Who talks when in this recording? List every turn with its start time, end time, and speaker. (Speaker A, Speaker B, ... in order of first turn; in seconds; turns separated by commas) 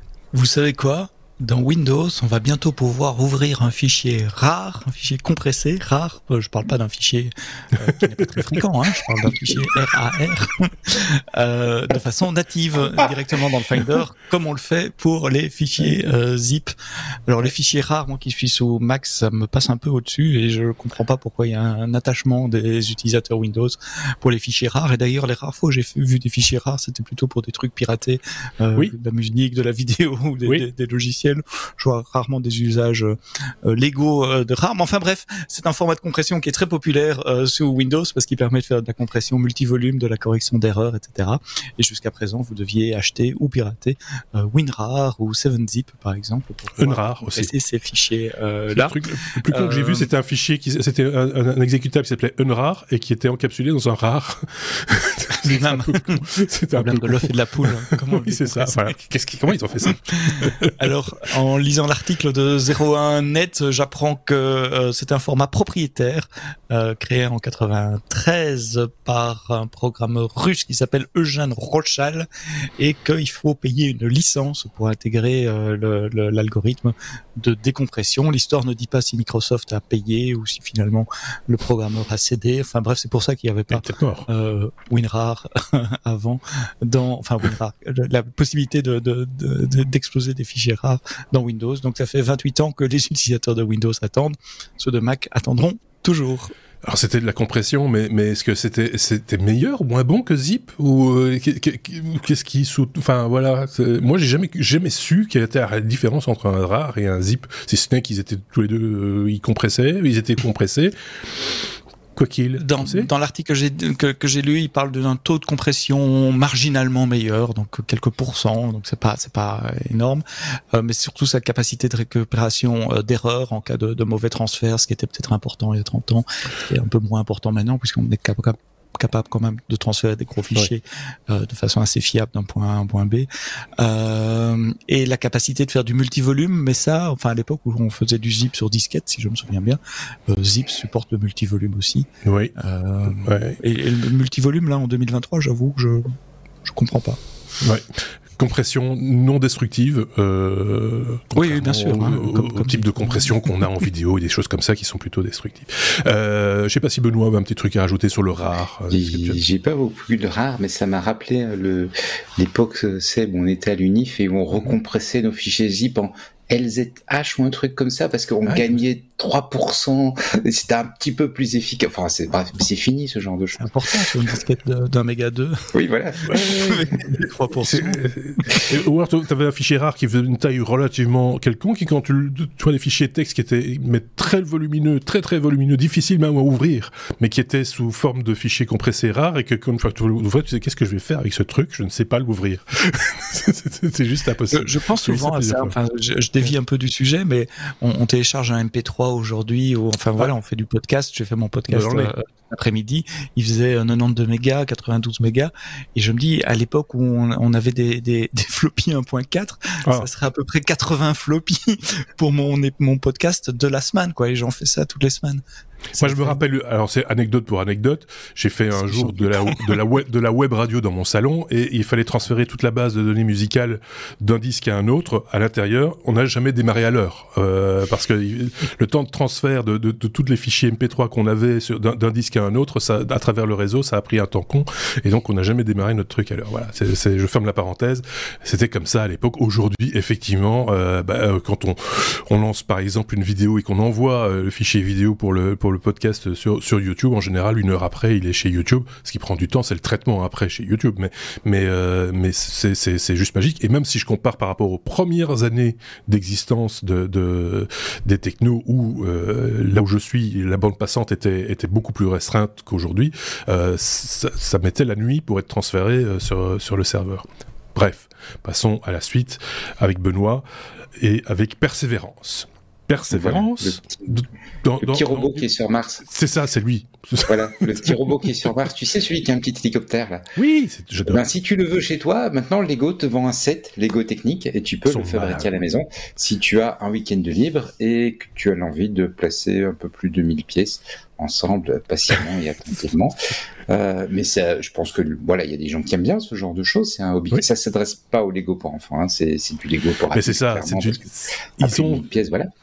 Speaker A: 0.3-16.7, Speaker A: 17.3-50.1, Speaker B: 46.8-47.5, Speaker B: 48.7-60.8, Speaker A: 55.4-56.2, Speaker A: 56.8-59.0, Speaker A: 59.8-96.5, Speaker B: 83.7-84.3, Speaker B: 96.8-111.0, Speaker B: 112.2-113.1, Speaker A: 112.5-146.1, Speaker B: 142.2-142.6, Speaker B: 143.1-143.6, Speaker A: 146.6-147.2, Speaker B: 147.6-147.9, Speaker B: 148.4-159.4, Speaker A: 151.3-153.4, Speaker C: 158.9-173.7, Speaker B: 168.5-168.8, Speaker A: 173.6-175.6, Speaker C: 175.8-176.3, Speaker B: 176.3-176.9, Speaker A: 176.3-178.0, Speaker B: 177.6-195.8, Speaker A: 194.5-215.4, Speaker B: 201.7-202.1, Speaker A: 215.9-216.4, Speaker B: 216.0-270.5, Speaker A: 218.8-219.8, Speaker B: 271.0-275.5, Speaker C: 273.1-274.2, Speaker C: 274.8-276.1, Speaker B: 276.0-278.5, Speaker C: 277.3-280.2, Speaker B: 280.4-281.2, Speaker C: 281.1-293.1, Speaker B: 284.9-285.5, Speaker C: 293.7-301.0, Speaker B: 300.1-302.1, Speaker C: 301.6-302.5